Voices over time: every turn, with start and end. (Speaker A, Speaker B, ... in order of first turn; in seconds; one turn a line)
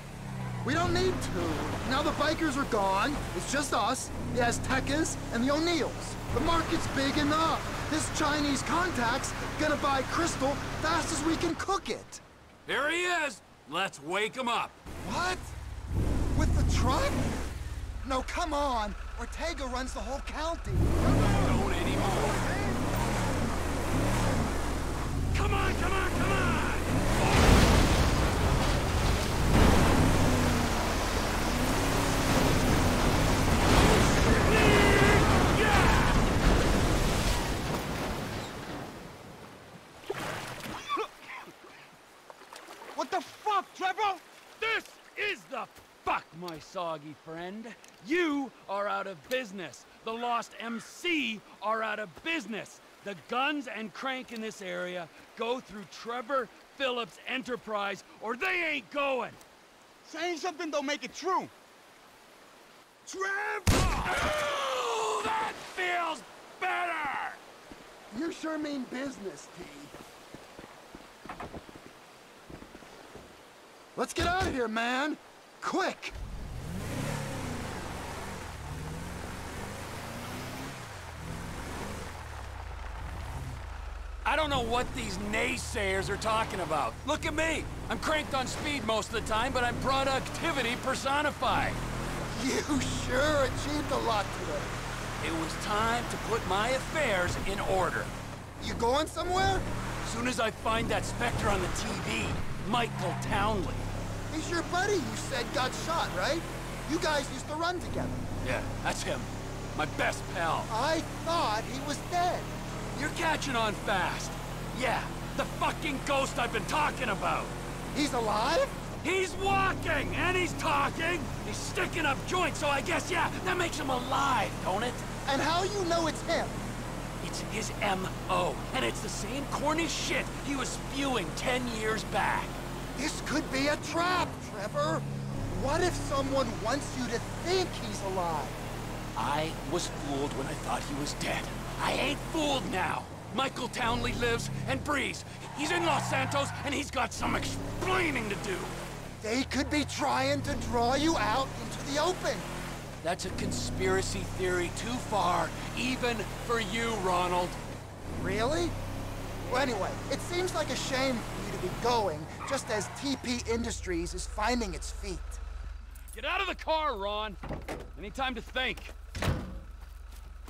Speaker A: 0.6-12.2
Speaker B: 12.7-14.8
Speaker A: 15.0-15.5
Speaker A: 16.3-17.2
Speaker A: 18.0-20.9
Speaker B: 21.1-22.4
Speaker B: 25.3-27.5
Speaker B: 33.9-36.2
Speaker C: 43.0-44.2
Speaker B: 44.6-59.4
Speaker C: 60.1-61.5
Speaker B: 63.6-67.4
Speaker A: 68.1-69.9
Speaker A: 74.0-76.2
Speaker B: 84.2-91.8
Speaker A: 92.3-94.8
Speaker B: 95.2-98.2
Speaker A: 98.6-99.7
Speaker B: 100.0-103.9
Speaker A: 104.3-108.2
Speaker B: 108.4-110.7
Speaker A: 110.7-112.5
Speaker B: 112.9-117.5
Speaker A: 117.9-118.8
Speaker B: 119.0-125.0
Speaker A: 125.3-126.6
Speaker B: 127.2-132.6
Speaker A: 132.9-138.6
Speaker B: 139.1-148.8
Speaker A: 149.2-152.5
Speaker B: 153.0-157.6
Speaker A: 158.2-158.8
Speaker A: 159.4-165.4
Speaker B: 166.1-167.4
Speaker B: 167.9-168.9